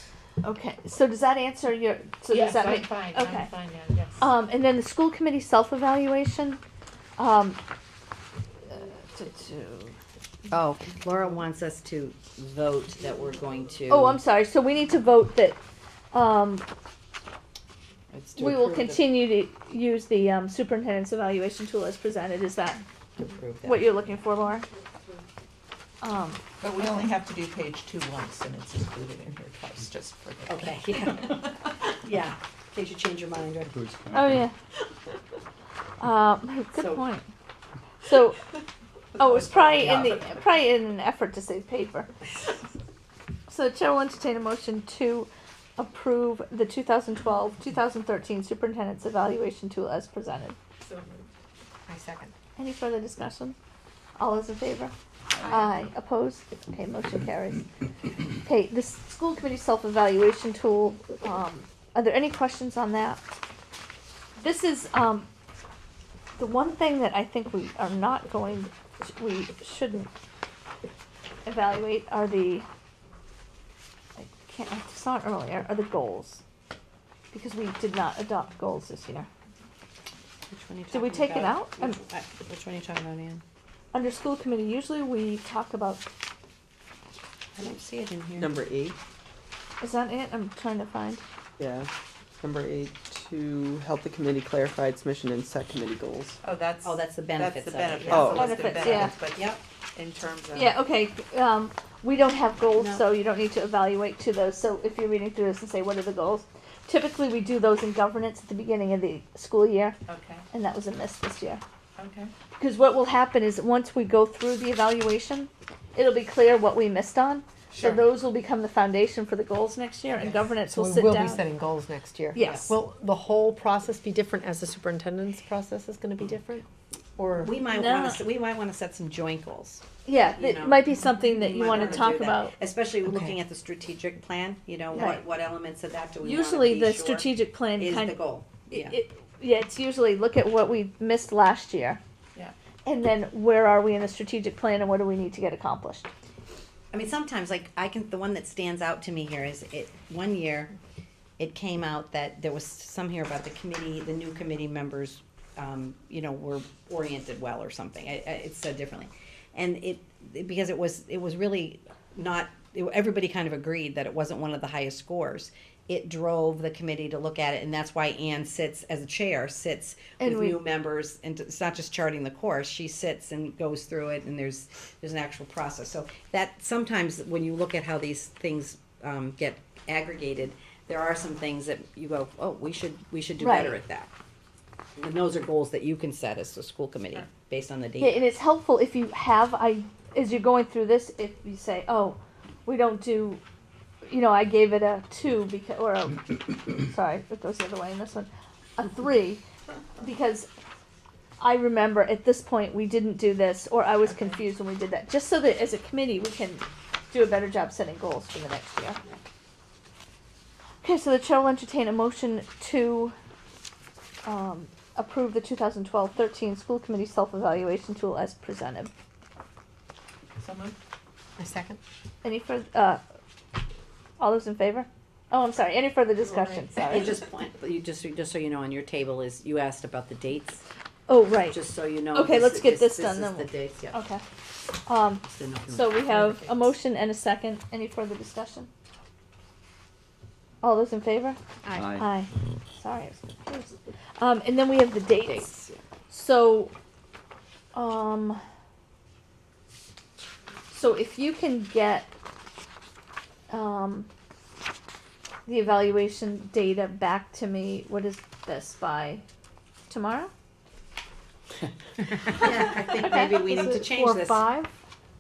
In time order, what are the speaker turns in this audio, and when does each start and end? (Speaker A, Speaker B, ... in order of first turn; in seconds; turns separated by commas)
Speaker A: 0.4-3.5, Speaker B: 2.3-4.3, Speaker A: 4.2-6.6, Speaker A: 7.2-7.6, Speaker A: 8.7-9.9, Speaker C: 10.5-14.2, Speaker A: 13.9-15.6, Speaker A: 16.1-16.7, Speaker C: 18.1-19.1, Speaker A: 18.4-22.8, Speaker C: 23.2-23.9, Speaker A: 23.6-24.7, Speaker A: 26.0-26.4, Speaker B: 26.6-31.2, Speaker C: 30.5-34.0, Speaker A: 34.1-34.5, Speaker A: 36.0-37.3, Speaker C: 36.7-37.0, Speaker A: 38.0-38.4, Speaker A: 39.2-42.1, Speaker B: 39.2-40.1, Speaker A: 43.5-50.6, Speaker B: 50.8-51.1, Speaker D: 51.9-52.3, Speaker A: 52.6-53.6, Speaker A: 54.2-57.7, Speaker B: 55.4-55.6, Speaker A: 58.4-63.2, Speaker A: 64.4-65.3, Speaker A: 66.4-70.1, Speaker A: 71.5-72.7, Speaker A: 74.2-76.4, Speaker A: 77.3-79.3, Speaker C: 80.5-83.4, Speaker A: 80.9-82.0, Speaker A: 83.9-86.1, Speaker C: 87.6-88.6, Speaker E: 88.4-89.0, Speaker A: 89.8-91.2, Speaker E: 91.6-91.9, Speaker E: 92.4-96.4, Speaker B: 96.4-100.8, Speaker C: 96.8-99.6, Speaker E: 98.1-98.6, Speaker A: 98.2-99.1, Speaker A: 100.5-110.0, Speaker C: 102.8-103.1, Speaker B: 110.1-110.5, Speaker A: 110.5-111.6, Speaker B: 112.0-112.3, Speaker A: 112.6-121.5, Speaker B: 117.7-118.1, Speaker D: 120.7-126.7, Speaker A: 122.3-122.8, Speaker C: 122.4-122.7, Speaker D: 127.2-127.5, Speaker C: 127.4-139.0, Speaker A: 127.7-128.2, Speaker A: 130.1-132.5, Speaker A: 134.9-135.2, Speaker A: 136.2-142.0, Speaker A: 142.8-146.1, Speaker C: 146.9-150.7, Speaker C: 151.4-184.1, Speaker A: 170.2-170.6, Speaker A: 183.4-183.8, Speaker C: 185.0-188.3, Speaker A: 188.0-193.4, Speaker A: 194.1-199.4, Speaker A: 200.0-200.5, Speaker A: 201.4-209.0, Speaker B: 204.1-204.4, Speaker A: 210.8-213.2, Speaker A: 214.2-218.9, Speaker B: 220.4-220.8, Speaker D: 221.4-221.8, Speaker A: 222.2-223.0, Speaker A: 224.2-227.2, Speaker B: 226.2-226.9, Speaker C: 226.8-230.7, Speaker A: 231.1-234.2, Speaker C: 231.5-234.0, Speaker A: 234.9-238.7, Speaker C: 235.2-236.1, Speaker B: 236.1-236.6, Speaker A: 240.6-245.5, Speaker C: 245.3-245.7, Speaker A: 246.1-246.7, Speaker A: 247.7-248.4, Speaker A: 250.7-252.1, Speaker A: 253.5-254.1, Speaker A: 255.5-259.2, Speaker A: 259.9-260.3, Speaker C: 262.1-264.5, Speaker A: 263.0-263.4, Speaker D: 263.4-264.7